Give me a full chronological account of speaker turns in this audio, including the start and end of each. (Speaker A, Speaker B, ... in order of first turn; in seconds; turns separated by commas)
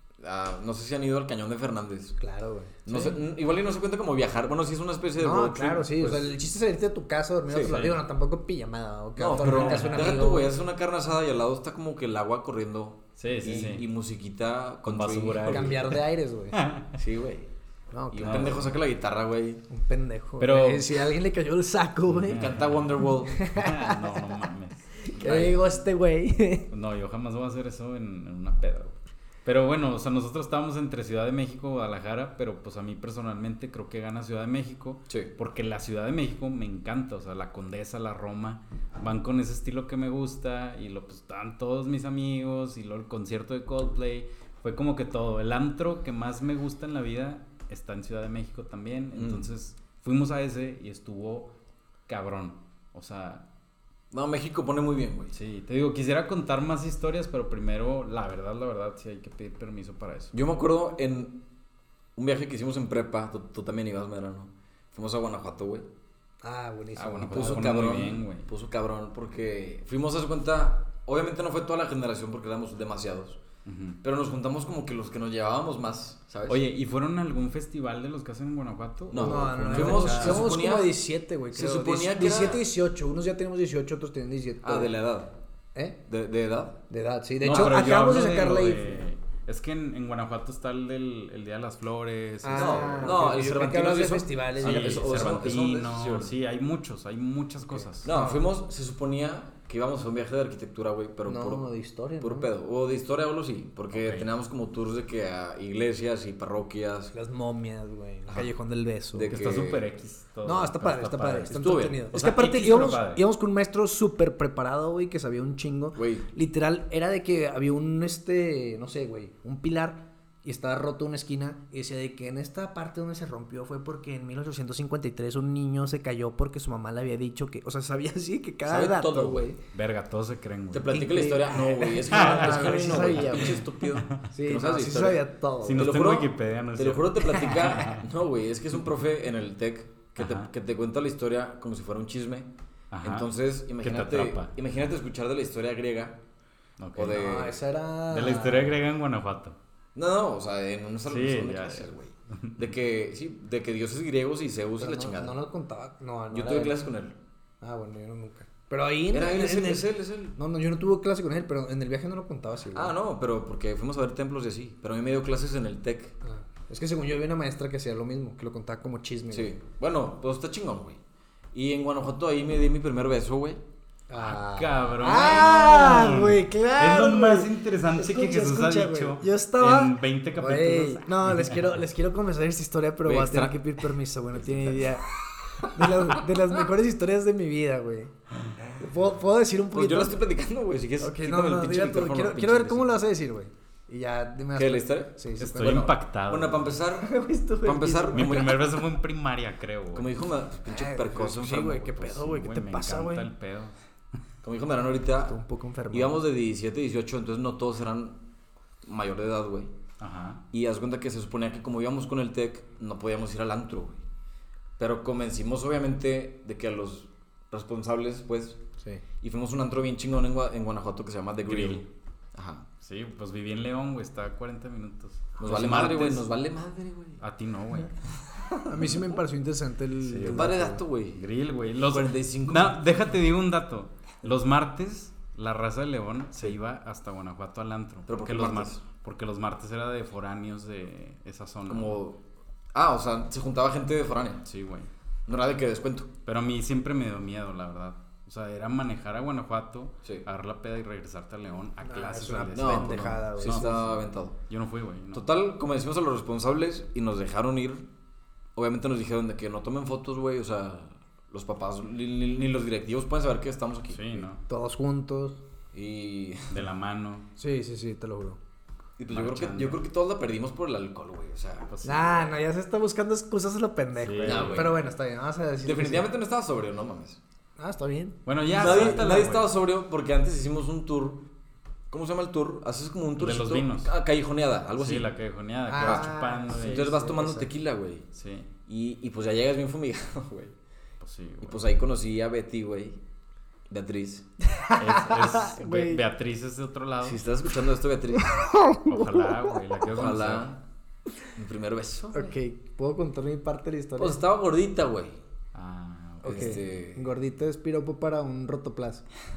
Speaker A: 0.2-2.2, Speaker B: 2.2-3.2, Speaker A: 2.9-6.3, Speaker B: 5.2-10.5, Speaker A: 7.5-7.8, Speaker C: 7.7-8.0, Speaker A: 9.2-15.9, Speaker C: 9.4-10.1, Speaker C: 13.2-13.8, Speaker C: 14.9-16.0, Speaker B: 15.5-16.6, Speaker C: 16.5-17.0, Speaker A: 17.0-17.5, Speaker B: 17.9-18.6, Speaker A: 18.1-19.6, Speaker C: 18.2-18.7, Speaker B: 19.7-22.4, Speaker C: 20.4-21.0, Speaker C: 22.1-22.9, Speaker A: 22.3-23.4, Speaker B: 23.3-24.0, Speaker C: 23.5-25.1, Speaker B: 25.0-26.7, Speaker A: 25.1-25.6, Speaker C: 26.7-51.5, Speaker A: 49.1-49.5, Speaker C: 52.1-53.5, Speaker A: 54.1-55.4, Speaker C: 55.3-60.3, Speaker A: 60.3-61.4, Speaker A: 62.2-65.9, Speaker B: 66.4-67.7, Speaker C: 67.0-68.5, Speaker A: 67.3-73.4, Speaker C: 73.7-74.0, Speaker A: 74.0-76.6, Speaker C: 76.5-80.5, Speaker A: 79.1-81.0, Speaker B: 79.2-84.9, Speaker A: 81.5-82.6, Speaker A: 84.6-85.4, Speaker A: 86.1-86.8, Speaker B: 86.9-89.0, Speaker C: 87.4-93.3, Speaker B: 92.4-95.2, Speaker A: 92.5-96.3, Speaker C: 94.6-98.1, Speaker B: 97.7-98.4, Speaker A: 98.0-101.7, Speaker B: 101.3-102.5, Speaker A: 102.2-107.1, Speaker C: 103.9-104.3, Speaker B: 107.1-109.3, Speaker A: 109.1-109.9, Speaker C: 109.3-111.5, Speaker B: 110.4-129.6, Speaker A: 111.5-112.0, Speaker C: 112.1-113.2, Speaker A: 116.0-116.3, Speaker A: 128.7-129.5, Speaker C: 129.7-130.9, Speaker A: 130.7-135.2, Speaker B: 130.9-133.6, Speaker C: 132.1-134.2, Speaker B: 134.3-135.9, Speaker C: 135.6-138.1, Speaker A: 135.8-142.5, Speaker C: 140.2-140.5, Speaker C: 142.9-144.5, Speaker A: 143.0-146.2, Speaker C: 146.8-147.2, Speaker A: 147.0-147.6, Speaker B: 147.1-148.8, Speaker C: 148.1-149.6, Speaker A: 149.9-155.4, Speaker C: 151.1-152.7, Speaker B: 154.8-156.8, Speaker A: 156.3-157.2, Speaker B: 157.6-162.9, Speaker A: 159.1-160.4, Speaker A: 162.7-166.2, Speaker B: 166.2-169.5, Speaker A: 169.3-171.0, Speaker A: 171.5-173.6, Speaker B: 174.1-185.1, Speaker C: 174.2-181.7, Speaker A: 183.0-183.6, Speaker A: 184.3-185.0, Speaker A: 185.6-185.9, Speaker B: 185.6-190.2, Speaker A: 189.7-193.0, Speaker B: 191.0-195.8, Speaker A: 194.6-197.1, Speaker C: 195.4-196.8, Speaker B: 197.0-198.6, Speaker A: 197.6-198.7, Speaker C: 198.1-200.1, Speaker A: 199.9-202.0, Speaker B: 200.7-203.3, Speaker C: 201.9-203.7, Speaker A: 204.4-205.4, Speaker B: 205.3-206.2, Speaker A: 205.9-208.2, Speaker A: 208.8-209.8, Speaker C: 210.0-210.4, Speaker A: 210.5-214.0, Speaker A: 214.8-218.6, Speaker A: 219.2-222.7, Speaker C: 221.5-221.8, Speaker C: 222.8-226.3, Speaker A: 225.4-227.2, Speaker B: 225.5-225.9, Speaker C: 227.2-228.0, Speaker B: 228.6-230.8, Speaker C: 228.8-229.1, Speaker C: 230.0-230.6, Speaker A: 230.3-231.2, Speaker C: 231.1-242.0, Speaker A: 231.8-232.8, Speaker A: 238.1-238.8, Speaker A: 241.7-242.2, Speaker A: 242.7-244.5, Speaker C: 244.5-244.9, Speaker A: 245.3-246.1, Speaker C: 246.2-255.3, Speaker B: 251.8-253.7, Speaker A: 252.6-254.4, Speaker A: 255.1-257.9, Speaker A: 258.6-264.2, Speaker C: 263.9-264.4, Speaker B: 264.5-265.4, Speaker A: 265.7-266.6, Speaker C: 266.5-267.3, Speaker B: 267.4-268.4, Speaker A: 269.0-271.7, Speaker C: 269.1-269.8, Speaker C: 271.7-272.4, Speaker B: 271.8-276.1, Speaker C: 274.0-274.7, Speaker A: 274.2-274.8, Speaker A: 275.6-277.2, Speaker B: 277.6-279.1, Speaker C: 278.3-279.5, Speaker A: 278.5-281.3, Speaker A: 281.9-285.1, Speaker C: 283.2-283.9, Speaker C: 284.8-287.1, Speaker B: 285.7-287.5, Speaker A: 285.8-288.1, Speaker C: 288.1-288.5, Speaker A: 288.7-290.6, Speaker C: 291.0-291.6, Speaker A: 291.4-293.0, Speaker A: 293.7-294.3, Speaker B: 294.5-296.0, Speaker C: 294.8-297.2, Speaker A: 297.0-298.4, Speaker B: 298.2-299.6, Speaker C: 298.9-300.5, Speaker A: 299.9-300.6, Speaker A: 301.4-302.3, Speaker B: 302.1-304.2, Speaker A: 304.0-305.2, Speaker C: 305.5-306.6, Speaker B: 306.2-309.1, Speaker A: 306.2-307.1